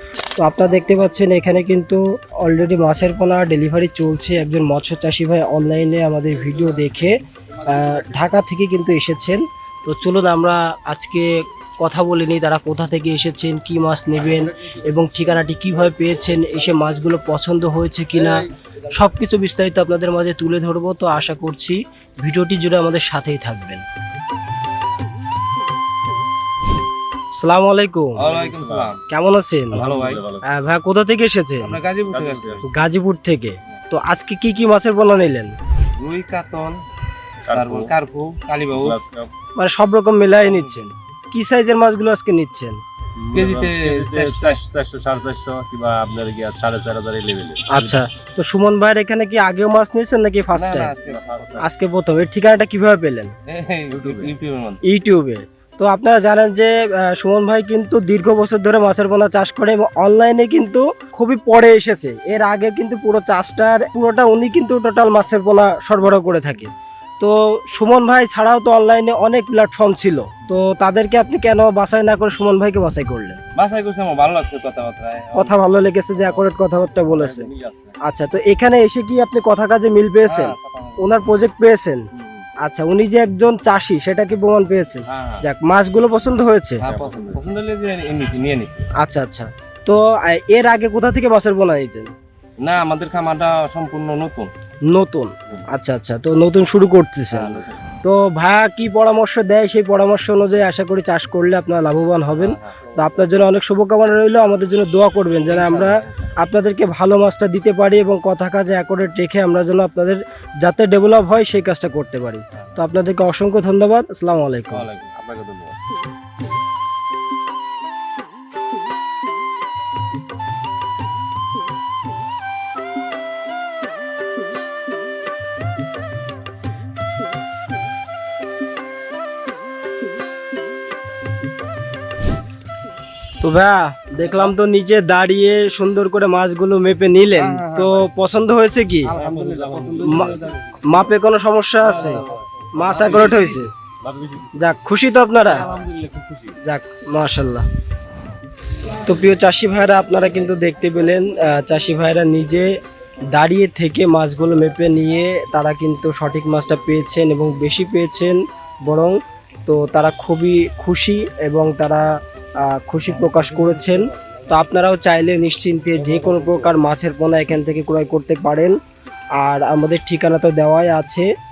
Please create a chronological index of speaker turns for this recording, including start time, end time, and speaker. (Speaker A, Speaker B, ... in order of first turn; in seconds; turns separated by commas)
Speaker A: 0.4-23.8, Speaker A: 27.4-28.2, Speaker B: 28.2-29.0, Speaker C: 28.2-28.9, Speaker A: 29.1-29.9, Speaker B: 29.7-30.2, Speaker C: 29.7-30.5, Speaker A: 30.4-31.8, Speaker B: 31.6-32.6, Speaker C: 32.1-32.7, Speaker A: 32.7-35.5, Speaker B: 36.0-36.8, Speaker C: 37.5-37.9, Speaker B: 37.5-39.0, Speaker C: 38.7-39.3, Speaker A: 39.6-42.8, Speaker B: 40.4-40.8, Speaker C: 43.2-48.0, Speaker B: 43.3-44.6, Speaker A: 47.7-50.9, Speaker B: 50.5-51.6, Speaker C: 51.0-51.6, Speaker A: 51.6-53.3, Speaker B: 53.5-54.8, Speaker C: 54.0-54.3, Speaker A: 54.8-73.4, Speaker B: 73.5-75.6, Speaker A: 75.3-77.5, Speaker C: 77.0-78.0, Speaker A: 78.0-82.0, Speaker B: 80.2-81.2, Speaker B: 82.1-82.4, Speaker A: 82.6-86.8, Speaker B: 85.1-85.4, Speaker B: 86.8-88.9, Speaker C: 86.8-87.5, Speaker A: 89.0-92.1, Speaker B: 92.6-94.5, Speaker A: 94.9-114.8, Speaker B: 97.3-97.7, Speaker B: 102.3-102.9, Speaker B: 105.4-106.4, Speaker B: 112.5-112.8, Speaker B: 114.7-115.2, Speaker C: 115.2-115.7, Speaker A: 133.4-139.1, Speaker B: 134.2-134.5, Speaker B: 137.3-138.1, Speaker B: 139.1-140.8, Speaker C: 139.1-140.6, Speaker A: 140.0-142.2, Speaker C: 141.8-144.7, Speaker A: 142.7-143.7, Speaker B: 142.9-143.5, Speaker A: 144.6-145.7, Speaker C: 145.4-146.6, Speaker A: 146.6-147.6, Speaker A: 148.9-152.7, Speaker A: 153.3-162.1, Speaker A: 162.6-168.8, Speaker A: 169.4-171.3